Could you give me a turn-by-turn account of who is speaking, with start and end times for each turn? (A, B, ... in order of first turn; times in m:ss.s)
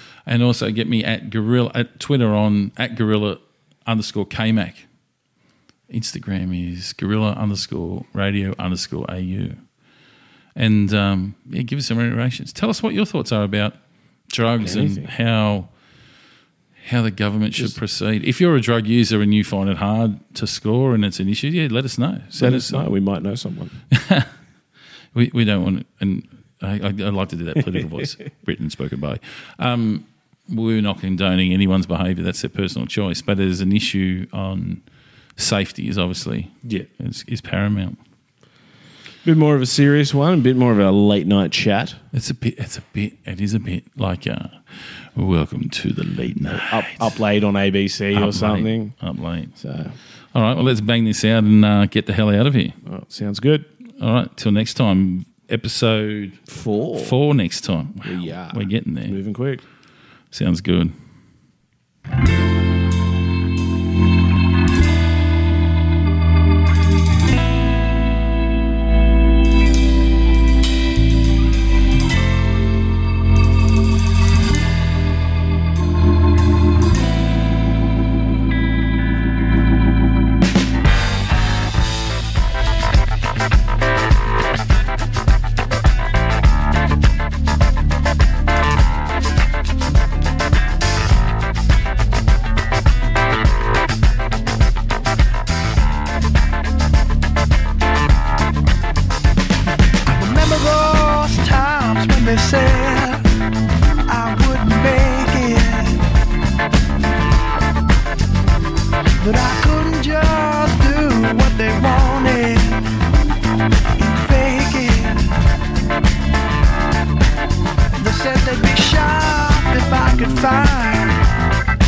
0:00.2-0:04.9 A
0:05.9-0:09.6 A
0:10.5-0:13.8 A
0:14.3-0:15.7 A
0:14.6-0:15.1 B
0:16.8-0:22.8 A
0:22.4-0:23.8 B
0:23.9-0:24.3 A
0:25.1-0:34.8 A
0:35.4-0:38.0 A
0:39.2-0:42.0 B
0:42.1-0:47.1 A
0:46.4-0:48.9 B
0:48.1-0:49.5 A
0:49.6-0:50.0 B
0:50.3-0:52.8 A
0:52.8-0:53.7 B
0:54.0-0:56.4 A
0:56.5-0:57.2 B
0:57.0-0:59.2 A
0:58.0-0:59.6 B
1:00.3-1:01.0 A
1:40.0-1:43.2 C
1:44.1-1:46.0 C
1:49.2-1:52.8 C
1:54.0-1:55.4 C
1:58.0-2:01.2 C